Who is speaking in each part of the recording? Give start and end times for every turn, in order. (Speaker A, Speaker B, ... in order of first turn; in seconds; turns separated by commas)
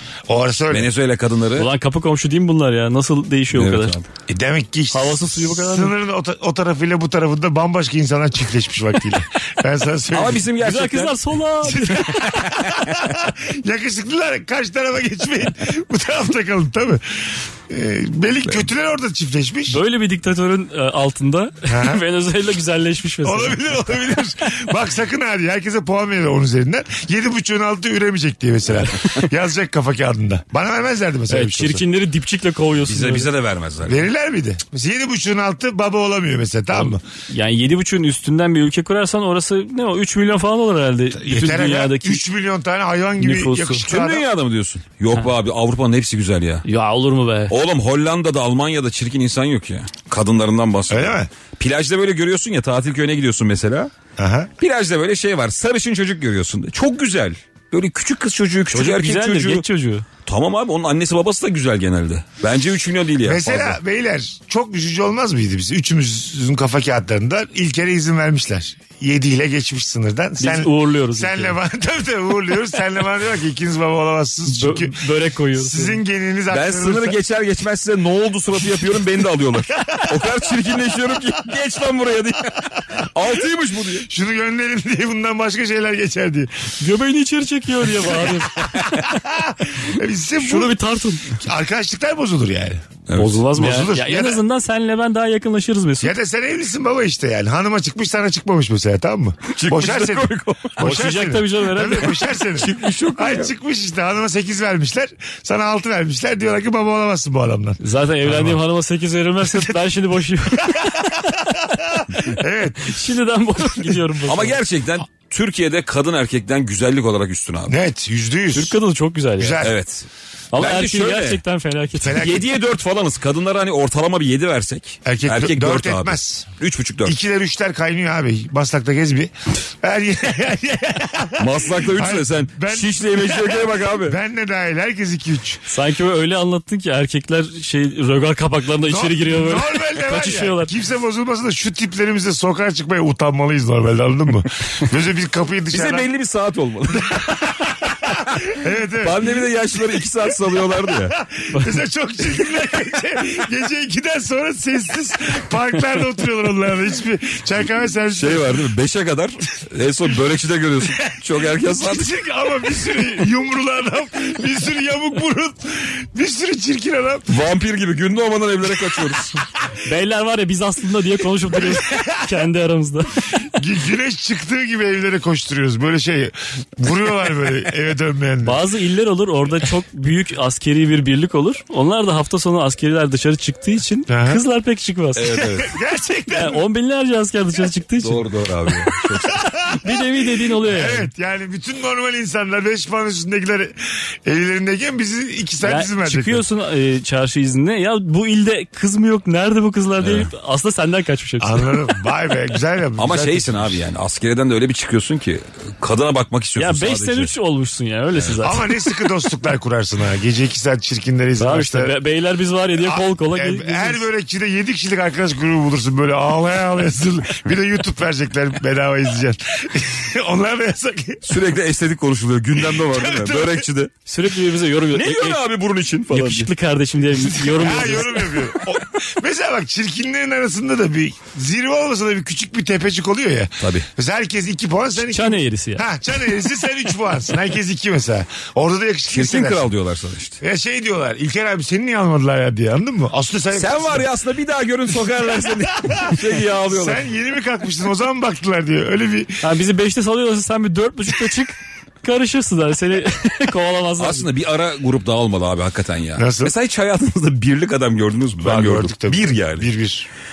Speaker A: 0.3-0.9, Speaker B: 0.7-1.7, Speaker C: 1.6-4.0, Speaker B: 3.5-4.0, Speaker A: 4.3-10.5, Speaker C: 4.9-5.9, Speaker B: 10.1-11.2, Speaker C: 10.6-12.2, Speaker A: 11.6-19.8, Speaker B: 12.4-13.1, Speaker C: 19.7-23.6, Speaker A: 21.7-22.0, Speaker A: 23.2-31.8, Speaker C: 31.3-33.3, Speaker B: 32.9-34.0, Speaker A: 33.9-37.0, Speaker C: 36.7-42.2, Speaker A: 41.1-44.2, Speaker C: 43.2-43.8, Speaker B: 43.9-46.6, Speaker C: 46.6-47.5, Speaker B: 47.5-53.9, Speaker A: 50.9-51.3, Speaker A: 54.2-54.5, Speaker B: 54.6-59.6, Speaker C: 58.7-60.0, Speaker B: 60.2-63.8, Speaker A: 63.2-77.2, Speaker C: 70.4-71.6, Speaker C: 74.5-76.0, Speaker B: 76.5-84.1, Speaker A: 79.8-80.2, Speaker A: 84.0-86.7, Speaker C: 86.8-88.6, Speaker A: 88.5-94.4, Speaker C: 90.4-91.3, Speaker B: 93.1-93.4, Speaker C: 93.1-96.1, Speaker A: 96.0-107.8, Speaker B: 99.5-100.8, Speaker C: 100.8-102.2, Speaker B: 102.5-103.5, Speaker C: 107.8-111.7, Speaker A: 110.7-113.0, Speaker C: 112.8-114.6, Speaker B: 114.3-117.7, Speaker A: 117.7-118.8, Speaker C: 118.5-119.6, Speaker A: 119.4-119.8, Speaker B: 119.6-121.4, Speaker C: 120.5-122.2, Speaker A: 122.0-122.5, Speaker B: 122.1-127.2, Speaker A: 125.0-126.5, Speaker A: 127.0-135.6, Speaker B: 131.4-134.2, Speaker C: 135.7-140.7, Speaker A: 138.8-146.1, Speaker B: 145.7-147.5, Speaker A: 147.1-149.4, Speaker B: 149.0-151.2, Speaker A: 150.6-158.7, Speaker C: 151.5-151.8, Speaker B: 158.1-162.1, Speaker A: 160.8-167.3, Speaker B: 167.3-169.4, Speaker C: 169.8-173.4, Speaker A: 171.5-172.3, Speaker A: 173.4-178.6, Speaker C: 178.4-185.3, Speaker A: 184.1-184.4, Speaker B: 185.2-185.7, Speaker A: 185.3-186.6, Speaker C: 186.3-188.2, Speaker B: 188.0-189.4, Speaker A: 189.3-190.0, Speaker C: 189.8-191.1, Speaker A: 190.6-196.4, Speaker C: 195.6-201.9, Speaker B: 200.0-200.3, Speaker A: 201.4-203.8, Speaker B: 203.0-207.3, Speaker C: 206.6-208.7, Speaker A: 208.4-211.9, Speaker C: 211.4-214.0, Speaker A: 212.8-221.4, Speaker B: 221.2-223.9, Speaker A: 222.6-223.7, Speaker C: 224.1-225.4, Speaker B: 224.9-226.5, Speaker C: 226.1-228.4, Speaker A: 227.1-239.7, Speaker B: 233.6-233.9, Speaker C: 235.0-235.9, Speaker B: 239.1-240.4, Speaker A: 240.4-244.1, Speaker B: 243.5-247.0, Speaker A: 245.3-249.4, Speaker C: 249.4-254.3, Speaker B: 254.0-259.7, Speaker A: 256.1-256.5, Speaker A: 258.4-260.1